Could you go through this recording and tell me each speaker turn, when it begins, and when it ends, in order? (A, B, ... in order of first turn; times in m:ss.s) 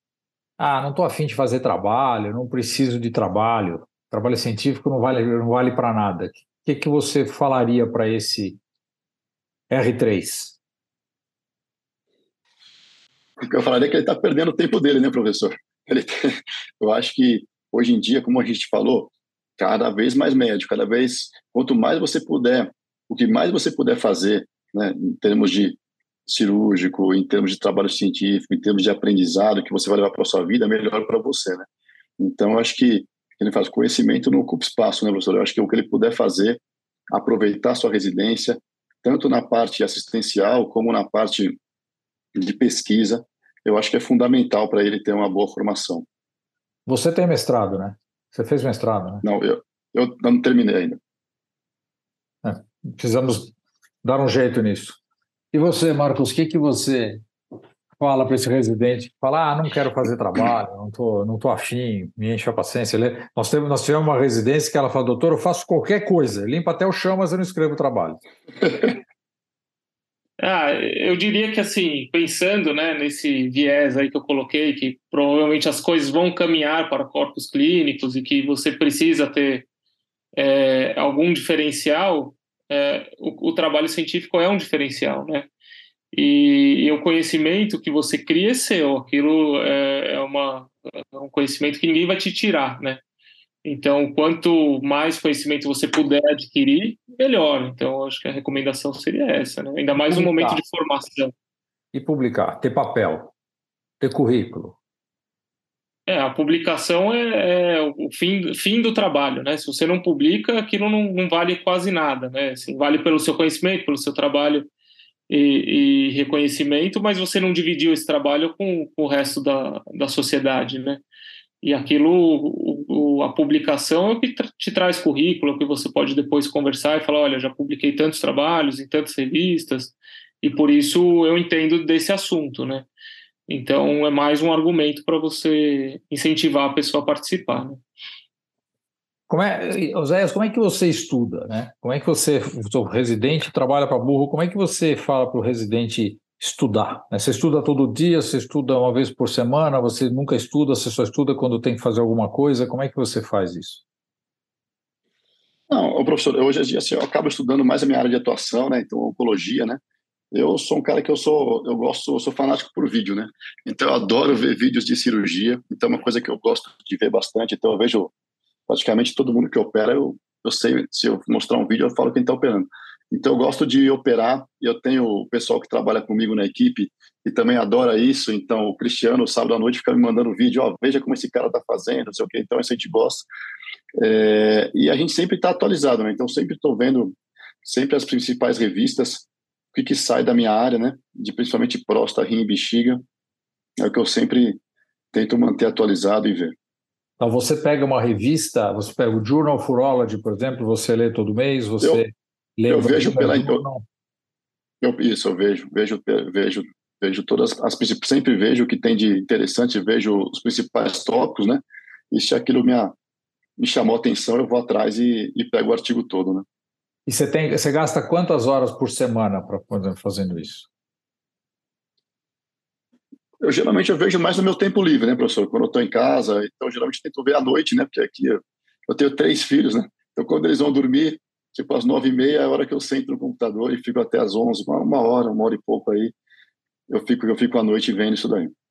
0:00.6-0:08.6 A
0:09.7-0:10.6 A
0:13.4-0:31.7 B
0:32.2-0:41.6 B
0:42.4-0:46.0 B
0:46.8-0:49.2 A
0:49.2-0:51.0 B
0:52.4-0:55.0 A
0:55.5-0:57.2 A
0:58.0-1:08.2 A
1:10.4-1:19.6 C
1:20.3-1:25.5 C
1:26.1-1:33.0 C
1:33.6-1:41.3 C
1:40.0-1:40.6 A
1:41.9-1:43.3 A
1:44.0-1:44.8 A
1:46.1-1:54.7 C
1:55.3-2:01.0 C
2:01.6-2:12.9 C
2:13.5-2:17.8 C
2:19.3-2:33.8 A
2:35.7-2:39.8 B
2:40.3-2:48.1 B
2:48.7-3:03.3 B
3:04.0-3:13.0 B
3:13.8-3:14.6 B
3:15.1-3:16.5 B
3:17.2-3:23.8 A
3:22.7-3:23.6 B
3:24.8-3:32.9 B
3:33.6-3:36.4 B
3:37.0-3:40.7 A
3:43.4-3:56.1 B
3:56.9-3:58.5 B